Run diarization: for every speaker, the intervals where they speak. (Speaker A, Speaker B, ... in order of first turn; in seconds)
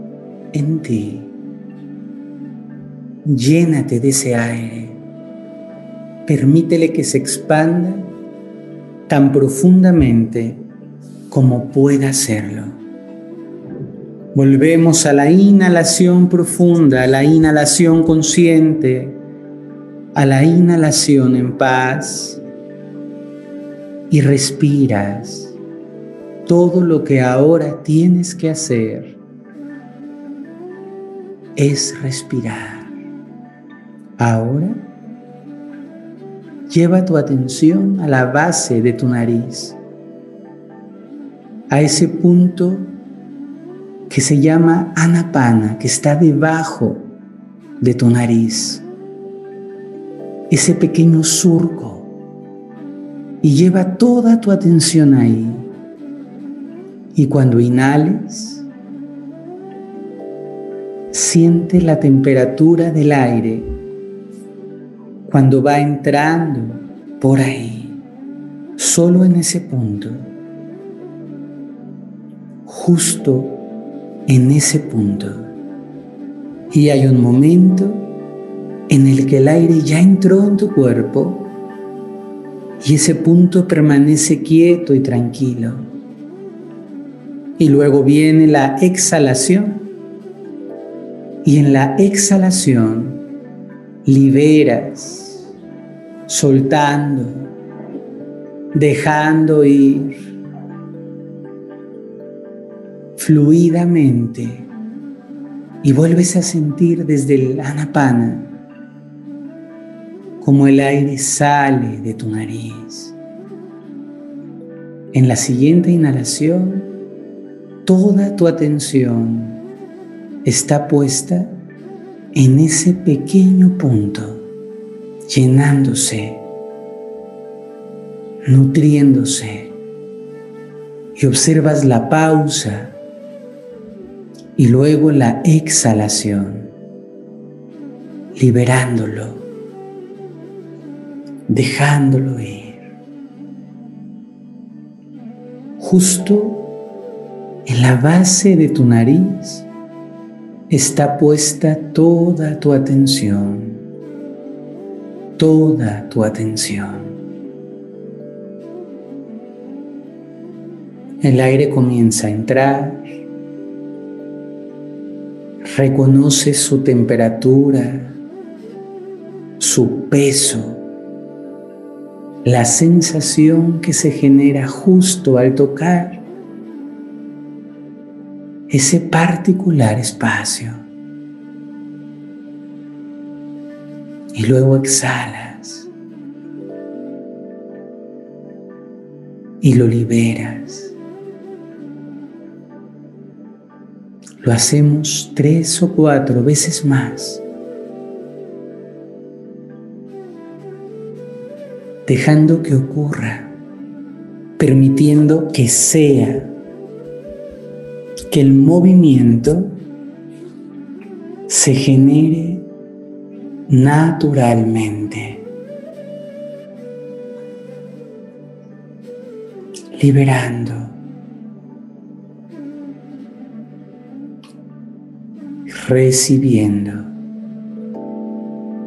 Speaker A: 0.5-1.3, 3.2-5.0, 6.2-8.1, 9.1-10.6, 11.3-12.8, 14.3-19.2, 20.1-22.4, 24.1-25.6, 26.4-29.2, 31.6-32.9, 34.2-34.8, 36.7-39.8, 41.7-42.9, 44.1-47.1, 47.8-48.8, 50.5-52.1, 53.4-55.7, 57.1-58.7, 61.1-63.7, 65.3-68.0, 68.8-70.3, 72.6-73.6, 74.3-75.5, 76.7-78.1, 78.9-81.5, 82.8-85.9, 87.6-89.9, 91.4-93.2, 94.0-95.5, 96.3-97.5, 98.7-100.2, 103.2-104.7, 105.8-108.5, 110.4-113.2, 115.1-116.9, 117.8-119.6, 120.4-121.5, 122.3-124.5, 125.3-126.4, 128.4-129.8, 131.2-133.0, 134.6-136.7, 138.3-139.5, 141.5-142.8, 145.8-146.7, 147.7-149.7, 150.7-153.8, 155.4-157.2, 161.2-163.0, 165.7-168.2, 169.6-170.8, 172.4-176.2, 178.7-180.8, 184.3-185.9, 189.6-190.9, 194.4-197.4, 202.1-203.5, 204.6-206.5, 208.3-209.8, 211.5-212.7, 213.7-215.4, 219.9-221.0, 225.7-227.1